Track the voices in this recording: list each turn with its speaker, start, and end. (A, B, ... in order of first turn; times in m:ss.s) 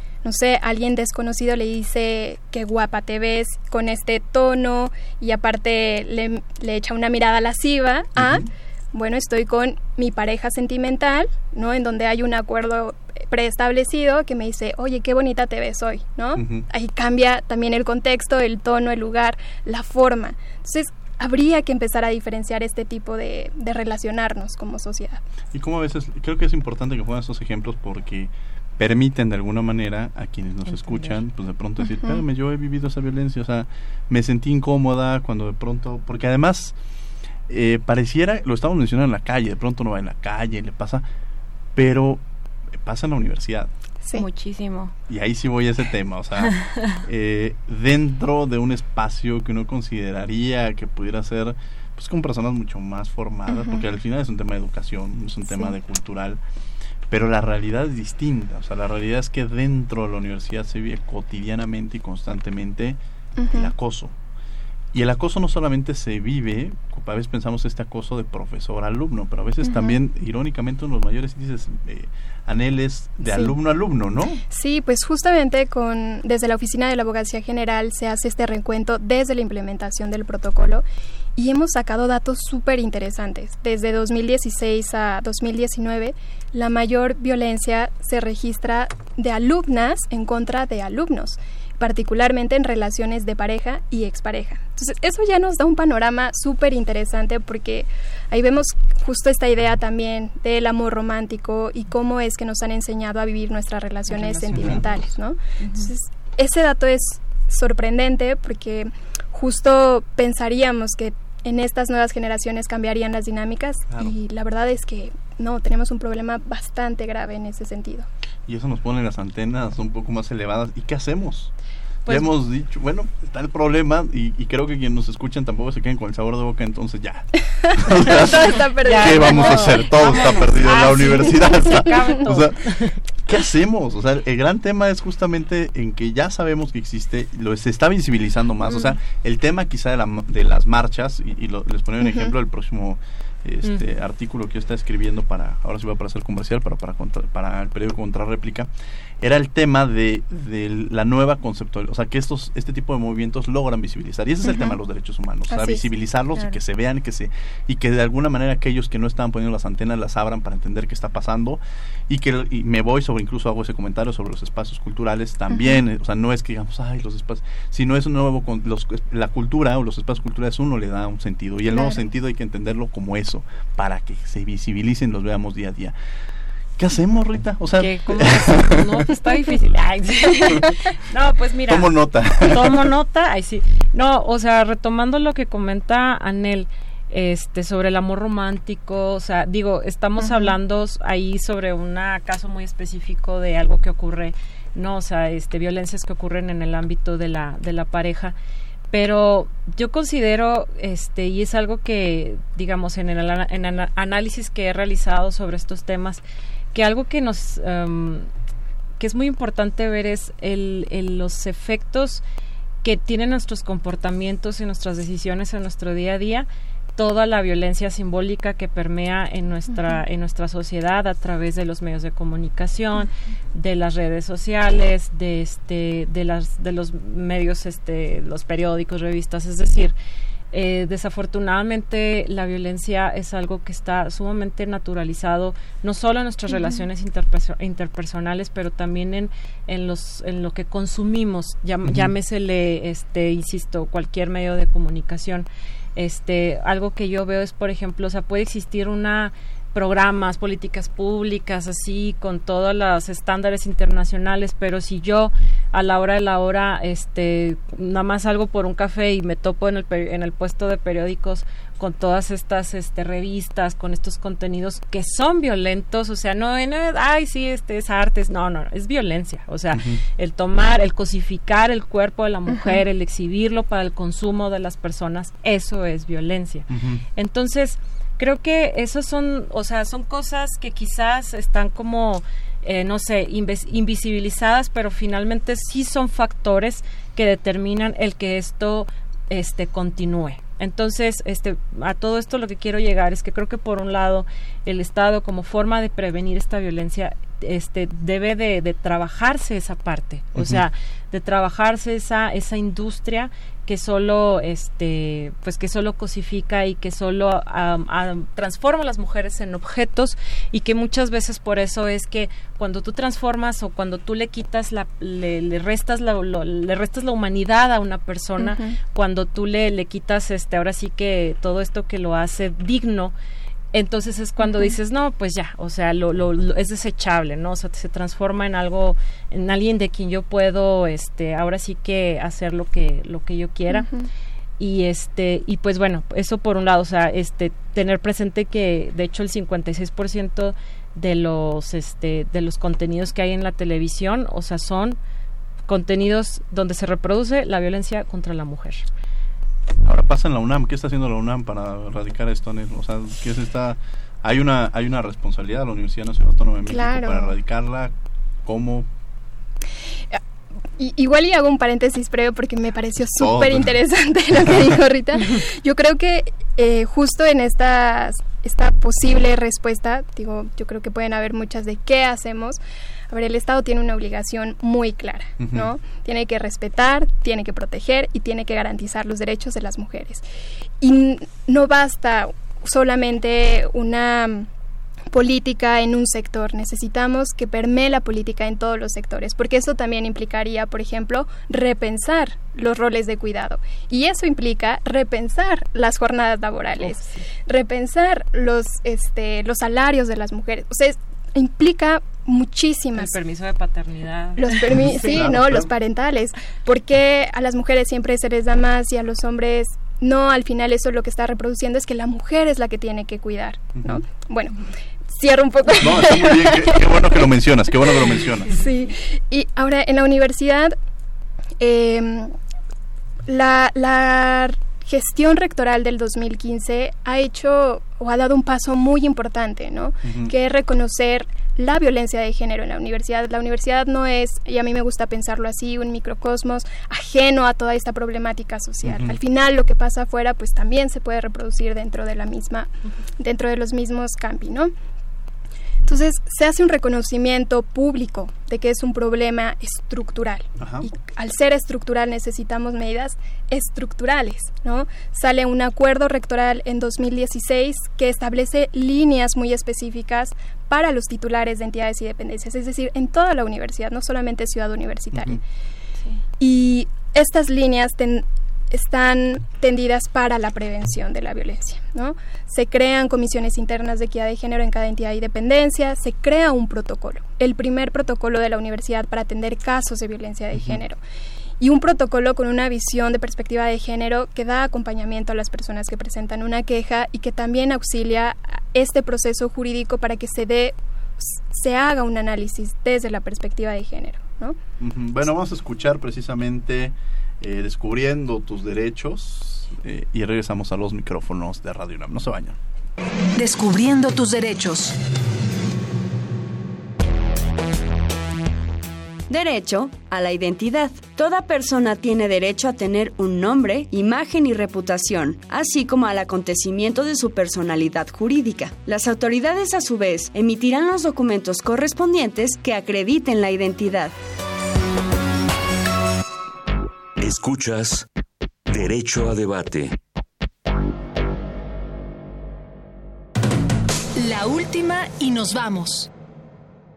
0:00.2-0:25.2 A
0:08.2-0:08.5 B
0:16.4-0:16.7 B
0:25.5-0:36.8 B
0:30.7-0:31.2 C
0:32.0-0:32.2 A
0:37.5-0:41.1 B
0:41.8-0:42.2 B
0:42.8-0:43.7 B
0:44.0-0:44.3 A
0:44.1-0:44.9 C
0:45.1-0:56.4 B
0:46.4-0:47.0 C
0:53.5-0:53.8 A
0:57.1-1:03.0 B
1:03.4-1:03.7 A
1:03.5-1:04.1 B
1:04.9-1:14.4 B
1:09.6-1:10.0 A
1:13.3-1:13.6 A
1:14.5-1:20.8 A
1:21.4-1:58.1 A
1:44.1-1:45.0 D
1:44.5-1:44.8 B
1:53.9-1:54.2 B
1:58.5-2:01.5 B
2:02.1-2:02.3 D
2:02.1-2:12.6 B
2:07.6-2:09.9 A
2:08.1-2:13.0 D
2:13.2-2:28.7 B
2:22.0-2:22.3 A
2:29.2-2:56.0 B
2:34.4-2:34.8 A
2:35.5-2:35.8 A
2:45.5-2:45.8 A
2:51.7-2:52.0 A
2:56.8-2:59.0 B
2:57.8-3:18.4 D
3:01.7-3:02.9 B
3:10.2-3:10.6 A
3:18.9-3:26.2 D
3:26.7-3:28.3 D
3:29.0-3:32.2 D
3:32.8-3:49.9 D
3:39.7-3:40.0 A
3:50.5-5:23.1 D
3:56.5-3:56.8 A
4:01.8-4:02.1 B
4:29.7-4:30.0 B
4:32.5-4:32.8 A
4:36.7-4:37.0 B
5:00.4-5:00.6 B
5:18.4-5:18.8 A
5:23.7-5:33.9 D
5:24.4-5:24.7 A
5:33.7-5:34.1 A
5:34.6-5:45.0 D
5:45.7-5:48.9 D
5:49.8-5:57.9 B
5:56.7-5:57.3 A
5:58.4-5:58.9 B
6:00.8-6:20.2 A
6:03.2-6:03.7 B
6:15.4-6:15.7 B
6:20.8-6:24.5 A
6:25.1-6:43.2 A
6:36.8-6:37.2 D
6:43.0-6:45.1 D
6:44.4-6:54.6 A
6:44.6-6:45.7 B
6:53.8-6:54.0 B
6:55.1-6:56.8 A
6:55.8-6:58.5 B
6:58.5-7:00.8 A
7:01.6-7:02.3 A
7:03.3-7:24.7 A
7:10.0-7:10.3 B
7:18.8-7:19.2 B
7:25.8-7:45.4 A
7:30.6-7:30.9 B
7:45.1-7:45.4 B
7:46.4-8:01.0 A
8:01.6-8:14.6 A
8:14.8-8:22.6 B
8:23.4-8:25.0 E
8:29.3-8:44.1 F
8:47.2-8:48.1 G
8:48.7-8:50.0 G
8:54.2-8:56.1 E